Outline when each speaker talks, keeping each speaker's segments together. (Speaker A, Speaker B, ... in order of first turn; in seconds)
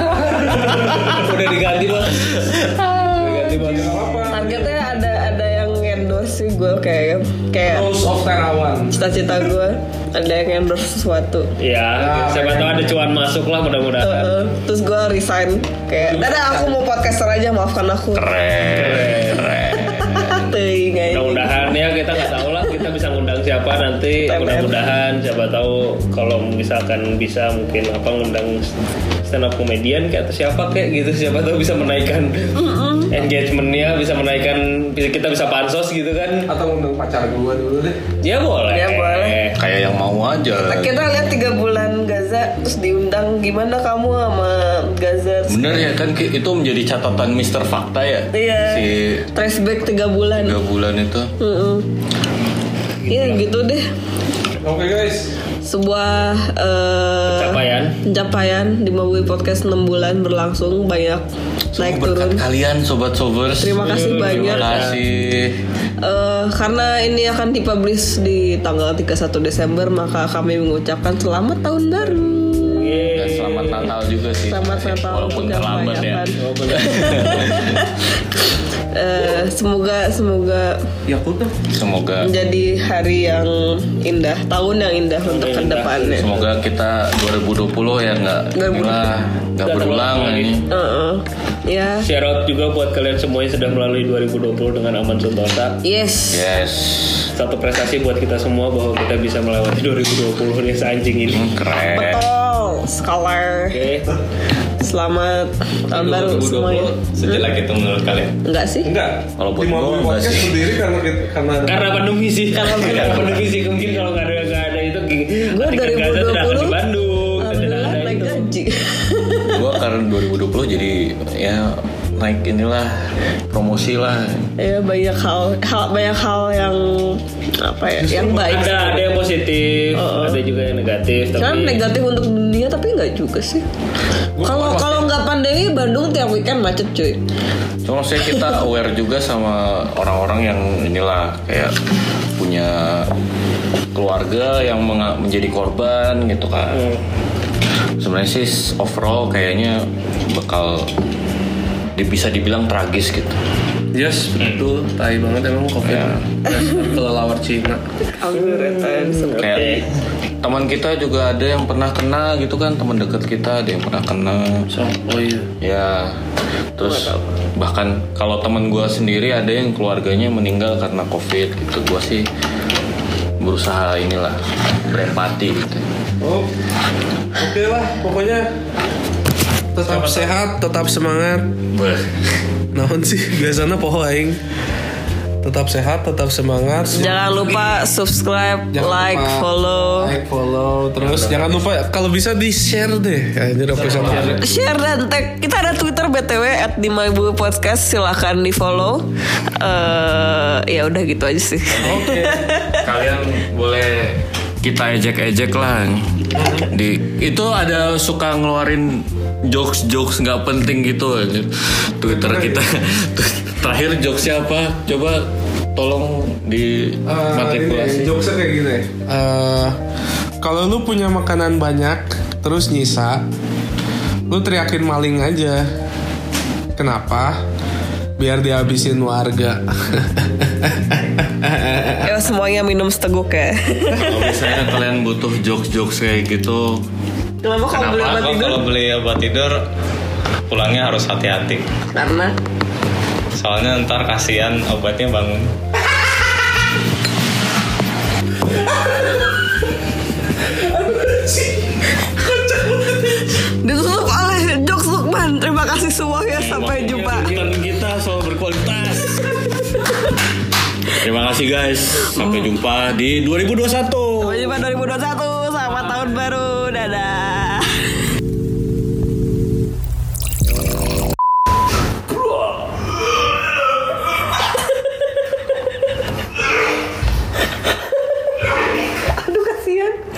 Speaker A: 0.2-0.5, 3.2-4.8, 7.7-9.4, 12.0-13.0, 15.9-16.7, 36.5-38.0, 54.6-55.3, 108.8-112.0, 134.4-135.0, 176.2-176.5, 177.3-178.4, 179.7-181.5, 182.7-184.4, 185.4-187.3, 188.7-194.4, 212.1-212.6, 217.1-219.8, 220.4-223.2, 224.3-225.7, 226.8-227.4, 228.2-232.0, 250.7-251.5
Speaker B: 0.5-0.9, 2.0-3.5, 18.1-20.5, 39.5-40.9, 45.5-49.2, 50.3-51.3, 61.7-65.6, 73.1-77.8, 81.6-82.3, 86.1-90.6, 96.3-97.3, 101.3-102.2, 109.4-110.6, 112.8-113.7, 119.5-124.5, 137.8-141.7, 142.4-143.1, 143.9-146.8, 148.0-150.9, 152.0-153.4, 155.8-156.2, 159.4-159.8, 160.4-164.7, 165.6-166.2, 166.8-172.2, 173.4-175.8, 181.7-182.2, 193.8-194.4, 201.7-206.1, 206.6-218.2, 233.9-236.8, 237.8-238.3, 256.3-259.3, 261.0-264.5
Speaker C: 0.6-2.4, 3.3-4.0, 11.6-14.3, 18.8-19.5, 21.1-28.7, 29.2-36.5, 38.2-39.6, 53.0-53.4, 57.3-58.0, 63.8-65.0, 72.6-73.9, 76.4-77.4, 85.2-86.4, 89.6-90.6, 92.0-95.8, 97.3-101.5, 103.7-104.1, 106.2-106.8, 111.6-118.5, 128.1-131.8, 146.7-147.0, 153.9-157.8, 158.3-159.8, 164.7-165.5, 179.8-180.3, 191.0-191.5, 193.7-194.4, 257.1-257.5
Speaker D: 4.3-7.9, 8.9-11.5, 14.0-18.3, 20.0-21.8, 24.2-24.8, 32.5-33.1, 38.7-39.4, 40.7-45.9, 48.3-48.8, 49.3-50.6, 51.4-51.9, 53.1-53.8, 55.6-61.2, 61.8-62.4, 63.6-64.7, 66.0-73.1, 74.5-78.0, 78.9-80.8, 82.2-86.3, 88.5-89.1, 90.7-92.1, 95.8-96.4, 101.9-103.8, 104.8-107.4, 108.4-108.9, 112.5-113.4, 115.5-116.8, 117.4-119.7, 124.6-129.0, 129.9-130.4, 131.3-133.6, 134.4-137.2, 138.3-138.5, 158.2-159.8, 166.8-167.2, 186.9-190.1, 194.4-199.0, 199.6-202.8, 232.0-234.3, 237.4-238.6, 241.9-242.3, 253.6-257.3, 264.2-267.8, 279.2-280.0
Speaker E: 106.1-108.3, 154.3-154.7, 237.8-239.6, 240.5-241.6, 243.3-245.5